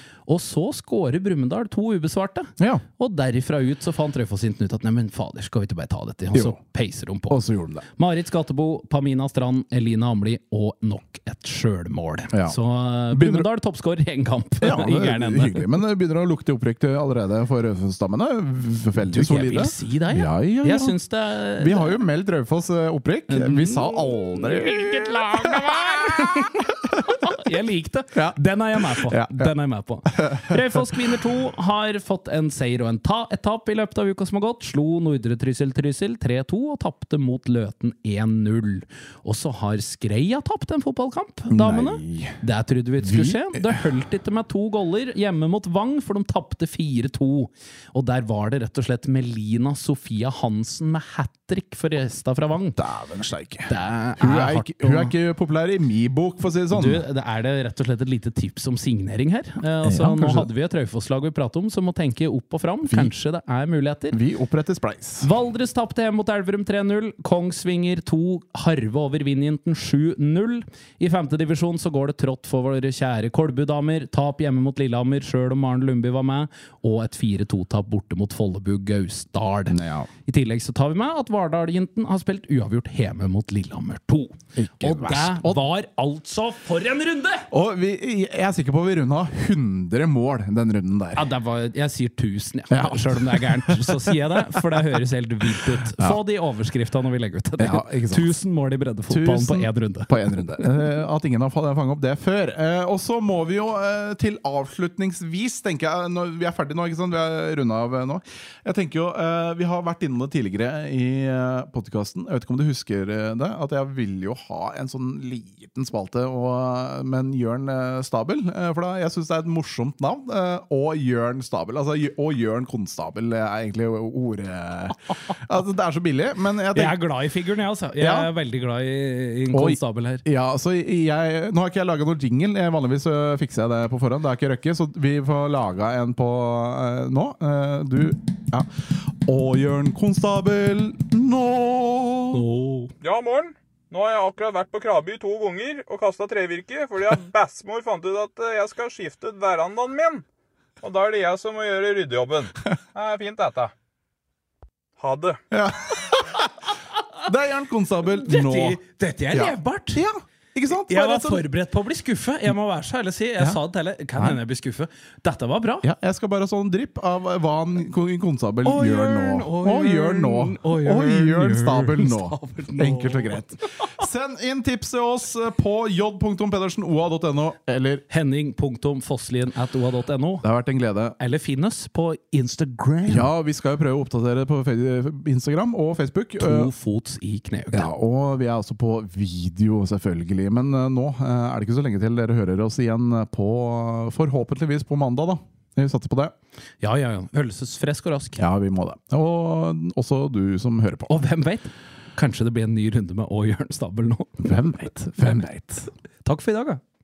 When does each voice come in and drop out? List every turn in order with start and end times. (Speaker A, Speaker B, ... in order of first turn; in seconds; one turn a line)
Speaker A: 0.3-15.7
Speaker B: 2.6-2.8
Speaker B: 7.3-7.8
Speaker B: 12.3-12.6
Speaker B: 13.1-13.5
Speaker B: 14.6-21.0
Speaker A: 19.1-22.0
Speaker B: 21.6-27.2
Speaker A: 23.3-52.8
Speaker B: 29.0-29.5
Speaker B: 30.1-31.0
Speaker B: 41.5-42.4
Speaker B: 43.0-43.8
Speaker B: 52.8-57.0
Speaker A: 53.7-55.1
Speaker A: 56.7-64.2
Speaker B: 59.8-60.5
Speaker B: 64.1-65.3
Speaker A: 65.2-87.5
Speaker B: 79.7-80.1
Speaker B: 84.6-85.6
Speaker B: 87.5-91.2
Speaker A: 91.2-100.9
Speaker B: 92.7-94.6
Speaker B: 95.5-96.2
Speaker B: 97.6-98.4
Speaker B: 99.1-127.0
Speaker A: 126.8-130.2
Speaker B: 128.0-128.3
Speaker B: 129.5-138.7
Speaker B: 139.2-142.4
Speaker A: 142.3-142.9
Speaker C: 143.0-150.2
Speaker C: 150.8-153.7
Speaker C: 155.0-155.4
Speaker B: 155.5-156.6
Speaker B: 157.2-158.8
Speaker A: 158.2-160.0
Speaker B: 159.3-161.4
Speaker A: 160.8-165.9
Speaker B: 165.8-178.0
Speaker A: 168.6-173.9
Speaker A: 178.1-180.4
Speaker B: 180.4-181.2
Speaker A: 181.2-183.3
Speaker B: 183.1-186.7
Speaker A: 186.4-187.9
Speaker B: 187.7-196.3
Speaker A: 196.8-198.4
Speaker B: 198.4-201.2
Speaker A: 201.1-204.6
Speaker B: 204.4-205.9
Speaker A: 205.2-205.4
Speaker A: 206.2-206.8